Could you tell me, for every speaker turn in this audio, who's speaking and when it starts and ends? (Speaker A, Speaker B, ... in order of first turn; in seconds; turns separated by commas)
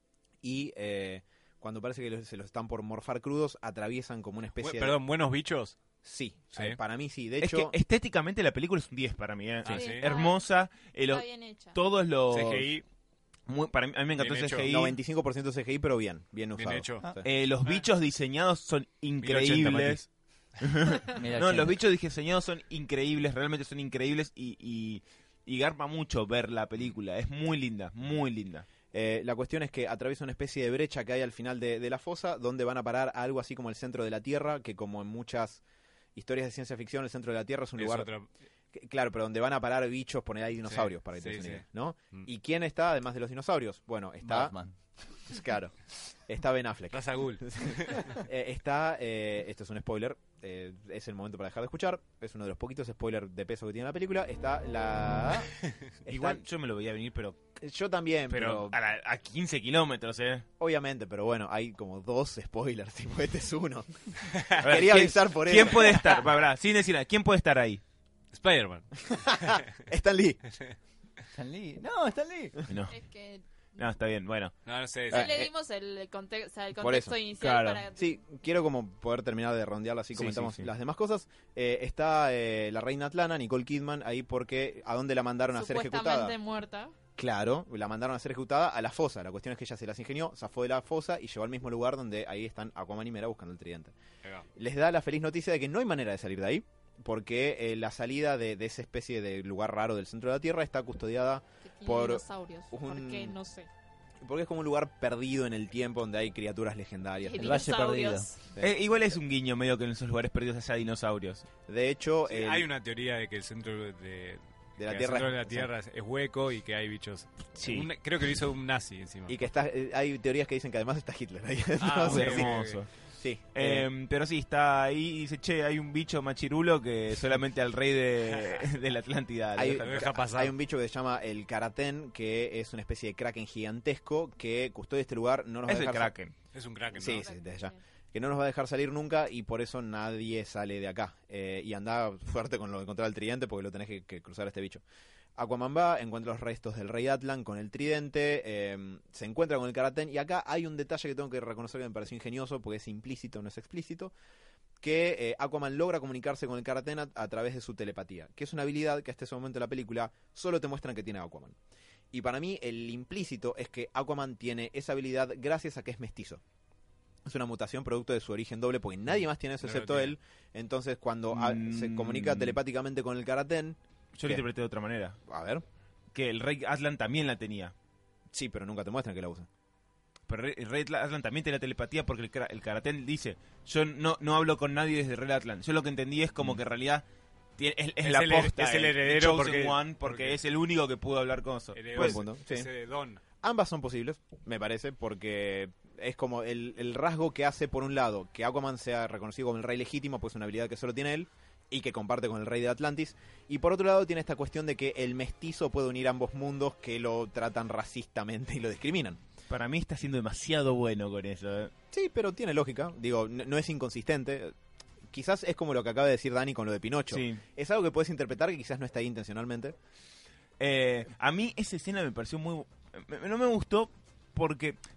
Speaker A: 0.4-5.0, Speaker B: 4.6-5.8, Speaker A: 6.0-7.7, Speaker C: 7.4-12.7, Speaker B: 9.6-10.1, Speaker D: 9.7-10.4, Speaker D: 11.1-11.8, Speaker B: 12.3-12.8, Speaker C: 13.5-15.0, Speaker B: 14.2-14.7, Speaker A: 14.6-17.2, Speaker B: 16.6-17.1, Speaker C: 17.2-20.0, Speaker B: 19.2-20.1, Speaker C: 20.6-28.6, Speaker E: 21.1-21.8, Speaker A: 28.9-35.6, Speaker A: 36.1-38.1, Speaker B: 37.8-38.3, Speaker A: 38.7-44.5, Speaker B: 40.6-42.3, Speaker E: 44.2-44.7, Speaker A: 45.2-45.7, Speaker A: 46.3-55.5, Speaker B: 46.9-48.1, Speaker A: 56.0-56.4, Speaker C: 56.1-57.4, Speaker A: 57.6-58.8, Speaker C: 58.3-60.4, Speaker A: 60.6-66.2, Speaker B: 64.4-64.6, Speaker C: 64.6-67.8, Speaker B: 68.3-69.6, Speaker A: 69.1-70.4, Speaker E: 71.3-72.6, Speaker C: 72.7-72.9, Speaker D: 72.9-73.8, Speaker C: 73.8-74.5, Speaker B: 74.6-75.2, Speaker D: 75.1-78.2, Speaker C: 75.1-75.4, Speaker A: 75.1-75.5, Speaker A: 76.7-77.2, Speaker C: 77.4-77.8, Speaker A: 78.0-86.3, Speaker C: 80.1-80.6, Speaker D: 85.5-86.9, Speaker A: 87.2-93.9, Speaker A: 94.5-103.4, Speaker D: 101.7-103.7, Speaker A: 104.2-107.6, Speaker D: 107.2-108.4, Speaker E: 107.4-108.3, Speaker C: 108.6-111.5, Speaker A: 111.7-112.7, Speaker B: 112.3-119.3, Speaker A: 114.8-115.7, Speaker C: 117.6-117.9, Speaker A: 119.3-122.6, Speaker B: 121.8-122.8, Speaker C: 122.0-122.9, Speaker A: 123.1-123.9, Speaker C: 123.5-129.8, Speaker A: 129.5-136.1, Speaker B: 129.8-130.5, Speaker C: 135.7-136.3, Speaker B: 136.5-137.3, Speaker A: 136.9-144.8, Speaker D: 137.0-137.8, Speaker A: 145.3-154.1, Speaker A: 154.8-161.6, Speaker A: 162.1-166.4, Speaker A: 167.2-174.4, Speaker B: 169.6-170.1, Speaker C: 171.3-172.6, Speaker C: 174.1-175.2, Speaker A: 175.3-175.6, Speaker C: 176.1-177.7, Speaker A: 178.3-179.5, Speaker C: 180.3-187.0, Speaker C: 187.6-192.2, Speaker B: 188.0-190.4, Speaker B: 191.7-193.2, Speaker A: 191.9-192.7, Speaker A: 193.4-209.2, Speaker C: 209.5-211.7, Speaker A: 211.9-214.5, Speaker A: 215.1-219.8, Speaker C: 217.1-217.4, Speaker C: 220.6-224.8